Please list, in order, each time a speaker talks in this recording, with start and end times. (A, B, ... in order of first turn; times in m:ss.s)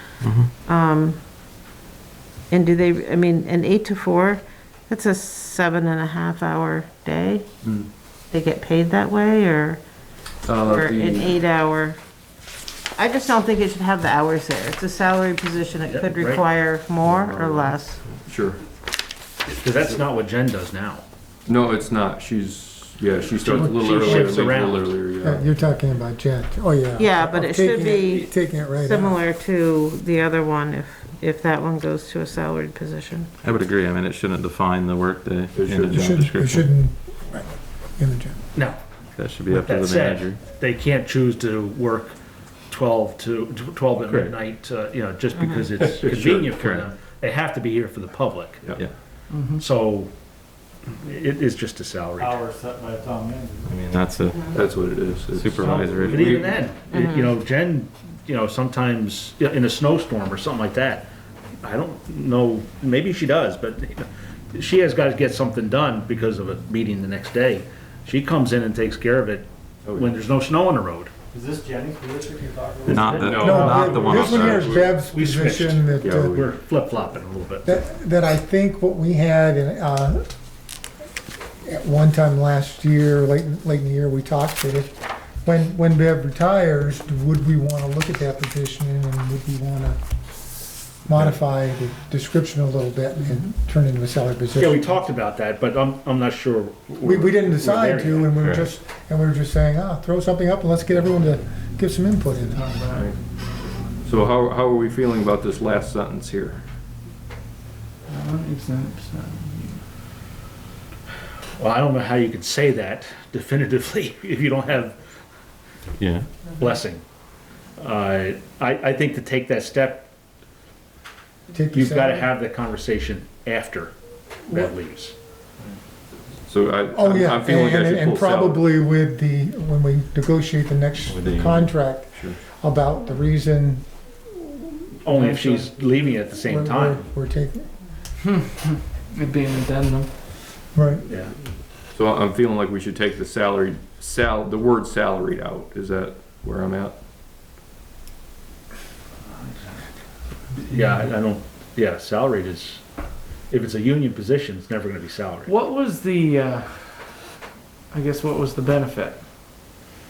0:00.2-0:00.5 A
0:00.6-0:01.2 B
0:02.5-0:07.5 B
0:08.3-0:09.8 B
0:10.4-0:11.4 C
0:10.6-0:12.0 B
0:12.9-0:18.0 B
0:15.9-0:16.4 D
0:17.0-0:17.7 C
0:18.2-0:18.6 C
0:19.4-0:21.0 D
0:21.4-0:25.4 C
0:23.4-0:25.0 D
0:23.5-0:24.4 E
0:25.2-0:29.2 E
0:27.0-0:33.3 B
0:33.4-0:36.7 A
0:35.5-0:36.0 C
0:35.9-0:38.4 E
0:38.5-0:38.8 D
0:39.1-0:40.4 A
0:39.5-0:42.1 D
0:42.7-0:48.7 D
0:44.0-0:44.3 A
0:46.0-0:46.4 C
0:46.4-0:46.9 A
0:49.3-0:49.6 F
0:49.5-0:50.1 D
0:51.0-0:52.5 D
0:52.2-0:53.9 G
0:53.7-0:54.5 A
0:54.5-0:56.0 C
0:55.3-0:56.5 A
0:55.3-0:56.5 G
0:56.0-1:01.1 D
0:56.9-0:57.3 B
1:01.6-1:11.1 D
1:11.3-1:14.2 G
1:12.8-1:14.9 A
1:13.1-1:13.7 C
1:13.3-1:16.4 E
1:15.0-1:17.8 D
1:16.0-1:16.5 C
1:17.6-1:20.2 E
1:21.6-1:30.0 E
1:31.0-1:34.9 E
1:34.6-1:38.3 D
1:37.0-1:42.6 E
1:38.4-1:38.7 A
1:42.5-1:43.1 F
1:44.0-1:46.6 C
1:48.1-1:49.8 F
1:51.6-1:55.0 D
1:56.0-1:56.3 A
1:56.5-1:57.0 D
1:57.8-2:00.1 D
2:01.5-2:02.3 E
2:01.7-2:03.9 D
2:04.5-2:05.1 D
2:06.4-2:08.7 C
2:06.9-2:13.8 E
2:11.1-2:11.7 A
2:15.0-2:17.0 D
2:15.1-2:15.7 F
2:16.4-2:17.7 E
2:18.2-2:20.1 F
2:20.7-2:21.0 E
2:21.1-2:21.3 D
2:21.9-2:27.0 C
2:30.6-2:32.8 D
2:33.5-2:35.5 D
2:35.4-2:37.2 F
2:37.9-2:39.2 F